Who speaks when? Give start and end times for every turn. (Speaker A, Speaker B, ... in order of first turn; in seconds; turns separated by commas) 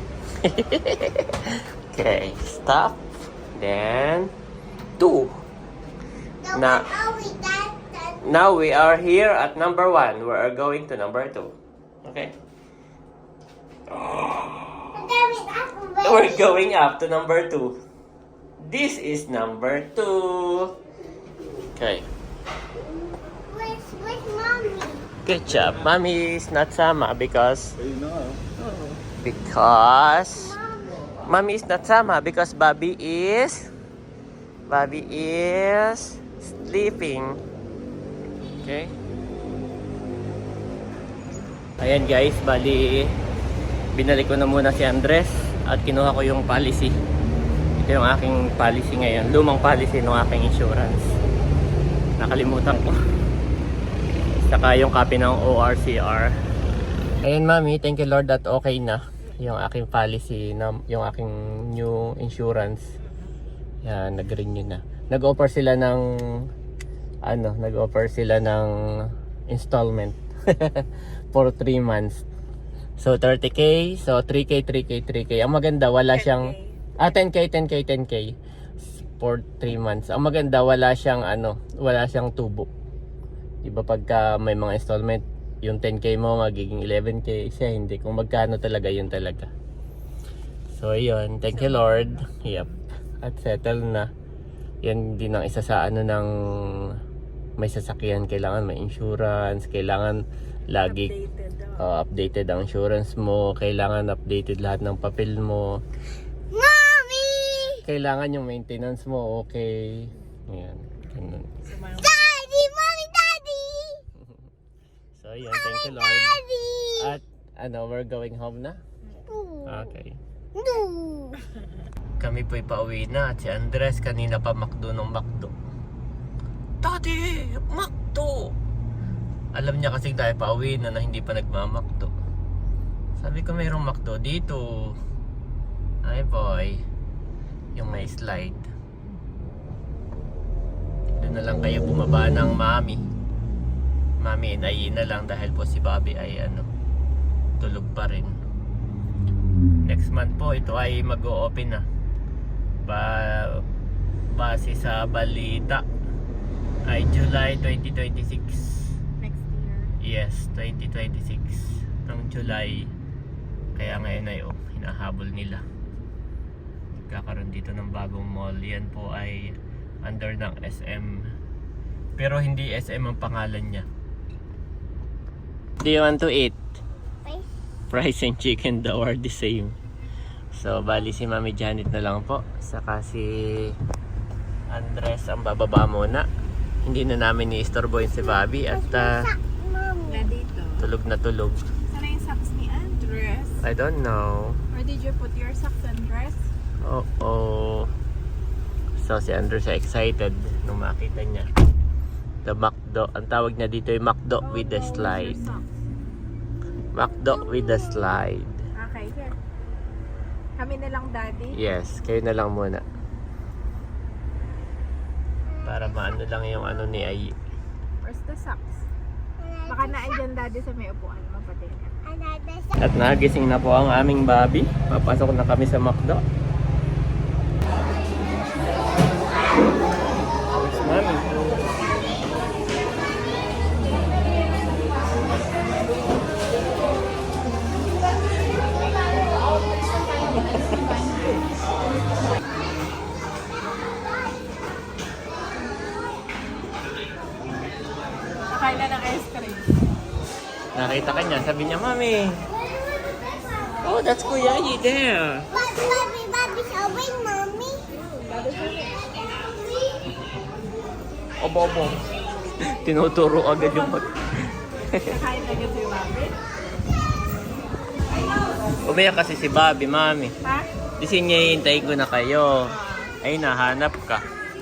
Speaker A: 0.4-3.0, Speaker A: 3.6-4.3, Speaker A: 5.0-5.3, Speaker B: 6.4-8.2, Speaker A: 6.5-7.0, Speaker A: 8.2-12.3, Speaker A: 13.9-14.6, Speaker B: 14.9-16.6, Speaker A: 16.0-17.8, Speaker A: 18.6-20.7, Speaker A: 21.7-22.1, Speaker B: 23.2-25.1, Speaker A: 25.3-27.8, Speaker A: 29.2-30.6, Speaker B: 30.4-31.0, Speaker A: 31.3-33.7, Speaker A: 34.7-37.4, Speaker A: 38.6-38.9, Speaker A: 41.8-43.1, Speaker A: 43.9-46.9, Speaker A: 47.8-51.1, Speaker A: 52.2-53.0, Speaker A: 54.4-56.3, Speaker A: 57.2-62.8, Speaker A: 63.8-66.0, Speaker A: 67.3-68.7, Speaker A: 69.5-72.2, Speaker A: 73.0-78.3, Speaker C: 76.1-76.9, Speaker A: 79.2-82.7, Speaker A: 83.6-89.5, Speaker A: 90.8-92.7, Speaker C: 91.5-92.8, Speaker A: 93.2-94.1, Speaker A: 94.8-96.3, Speaker A: 97.6-100.2, Speaker A: 100.7-101.1, Speaker C: 100.8-101.9, Speaker A: 101.8-105.8, Speaker B: 106.5-107.8, Speaker A: 107.8-111.5, Speaker C: 111.7-112.2, Speaker B: 112.0-114.0, Speaker A: 115.2-116.4, Speaker B: 115.5-117.2, Speaker A: 117.0-118.8, Speaker B: 119.3-120.0, Speaker A: 119.7-120.2, Speaker B: 120.5-121.4, Speaker A: 122.2-125.5, Speaker A: 126.8-128.5, Speaker A: 129.5-132.1, Speaker A: 133.2-134.9, Speaker A: 136.0-136.8, Speaker A: 137.8-138.7, Speaker A: 141.2-143.0, Speaker A: 144.2-146.7, Speaker A: 147.6-148.3, Speaker A: 149.8-151.8, Speaker A: 152.8-153.6, Speaker A: 154.3-155.8, Speaker A: 156.9-158.8, Speaker C: 159.2-159.9, Speaker A: 160.0-162.9, Speaker A: 163.8-165.6, Speaker A: 167.0-169.5, Speaker A: 170.1-171.2, Speaker A: 172.2-173.9, Speaker A: 175.8-176.6, Speaker A: 177.9-179.7, Speaker A: 180.6-183.7, Speaker A: 184.7-186.3, Speaker A: 186.8-189.2, Speaker B: 188.2-190.3, Speaker C: 190.1-190.8, Speaker A: 190.8-191.6, Speaker C: 191.9-193.6, Speaker A: 193.6-194.6, Speaker C: 194.7-196.5, Speaker A: 196.8-197.9, Speaker A: 199.0-201.5, Speaker A: 202.4-205.4, Speaker C: 204.4-205.7, Speaker A: 206.9-208.6, Speaker C: 208.8-209.3, Speaker C: 210.6-211.6, Speaker A: 211.5-212.8, Speaker B: 215.6-215.9, Speaker A: 215.7-217.3, Speaker C: 218.0-218.8, Speaker B: 219.4-220.2, Speaker C: 219.7-222.0, Speaker B: 222.1-222.8, Speaker A: 222.8-226.2, Speaker A: 230.6-231.6, Speaker C: 248.5-249.8, Speaker A: 250.8-252.4, Speaker A: 253.8-255.5, Speaker B: 255.5-257.8, Speaker C: 258.2-258.9, Speaker B: 259.3-260.0, Speaker A: 261.4-262.0, Speaker A: 262.8-264.1, Speaker C: 263.6-264.1, Speaker A: 264.9-265.1, Speaker C: 265.1-266.4, Speaker A: 268.9-270.3, Speaker C: 270.4-270.7, Speaker A: 271.0-272.7, Speaker C: 272.7-273.1, Speaker A: 273.2-274.2